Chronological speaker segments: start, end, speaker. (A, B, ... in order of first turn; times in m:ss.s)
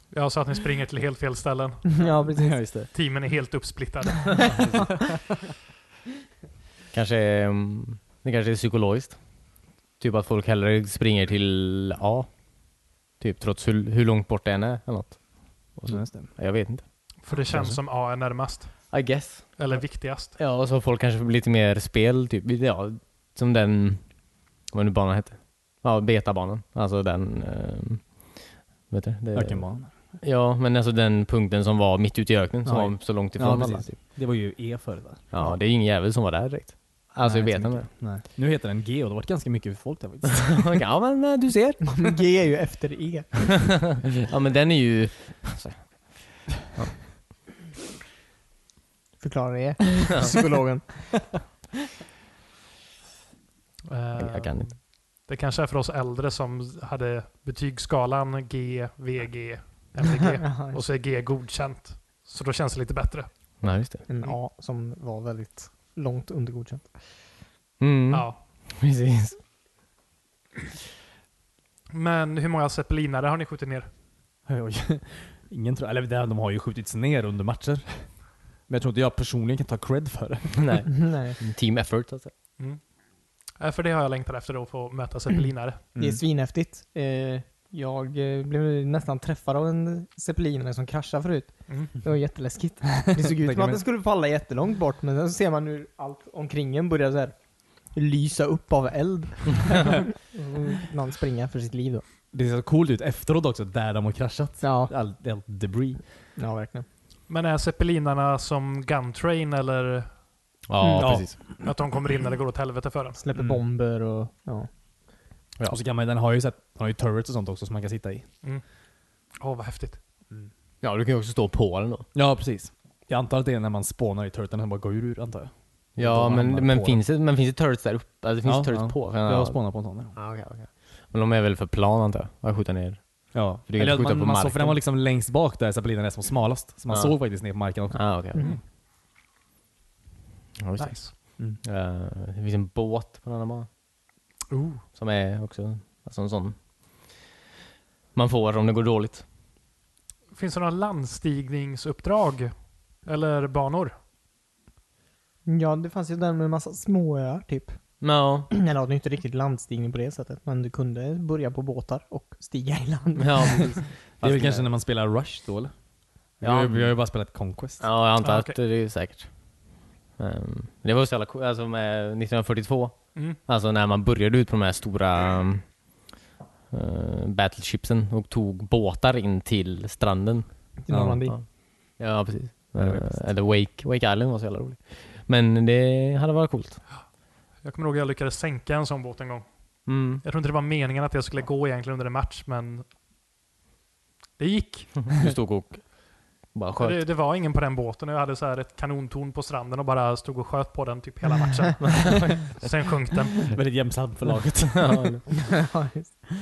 0:00.1-0:02.0 A
0:01.9-0:02.6 B
0:02.4-0:02.9 C
0:02.9-0:04.9 A
0:06.9-0:09.2 D
0:10.0-0:12.3 D
0:13.2-0:16.8 D
0:15.9-0:16.3 C
0:17.2-0:18.9 A
0:17.5-0:17.8 D
0:18.9-0:19.8 D
0:19.6-0:20.3 A
0:20.3-0:24.0 D
0:24.7-0:29.7 D
0:29.3-0:29.9 C
0:30.2-0:34.0 D
0:32.6-0:35.2 C
0:35.3-0:37.9 D
0:37.2-0:40.6 C
0:40.4-0:41.8 D
0:41.8-0:43.5 B
0:44.0-0:47.1 D
0:49.2-0:51.3 B
0:53.9-1:03.3 A
0:54.2-0:54.7 D
1:00.2-1:00.8 B
1:03.6-1:04.0 D
1:04.1-1:06.9 B
1:07.8-1:09.4 D
1:08.1-1:08.4 A
1:11.9-1:13.9 A
1:14.5-1:20.9 C
1:20.6-1:22.3 D
1:20.9-1:21.4 B
1:23.6-1:25.8 A
1:25.9-1:26.2 C
1:26.0-1:42.0 B
1:33.2-1:33.8 C
1:42.3-1:46.0 C
1:44.6-1:44.9 B
1:46.4-1:46.8 B
1:47.3-1:50.1 A
1:50.7-1:51.4 D
1:50.8-1:51.1 B
1:51.0-1:51.3 C
1:51.4-1:53.2 A
1:53.2-1:54.7 B
1:53.3-1:53.6 C
1:55.7-1:58.2 C
1:59.4-2:00.0 A
2:00.8-2:02.0 D
2:02.1-2:07.0 C
2:06.0-2:09.6 D
2:08.4-2:10.2 C
2:10.1-2:14.8 D
2:13.3-2:18.6 C
2:16.9-2:17.2 D
2:17.9-2:18.6 D
2:20.6-2:23.7 D
2:20.8-2:21.1 A
2:24.5-2:24.8 A
2:24.9-2:27.2 D
2:28.1-2:29.2 D
2:30.3-2:32.5 A
2:33.0-2:33.9 A
2:35.4-2:37.8 B
2:38.0-2:38.5 D
2:38.5-2:43.8 B
2:43.2-2:44.7 D
2:44.2-2:45.7 C
2:46.4-2:46.9 D
2:46.4-2:47.8 C
2:47.8-2:49.3 D
2:48.2-2:48.5 A
2:50.2-2:55.8 D
2:56.7-3:00.6 D
3:00.8-3:01.4 B
3:00.9-3:01.2 C
3:01.2-3:06.8 D
3:02.8-3:03.2 C
3:07.6-3:09.5 A
3:09.8-3:10.2 D
3:10.2-3:12.8 A
3:14.4-3:15.1 A
3:15.1-3:17.0 D
3:16.8-3:23.5 A
3:21.9-3:22.4 D
3:23.5-3:25.2 C
3:24.7-3:25.2 D
3:25.3-3:26.3 B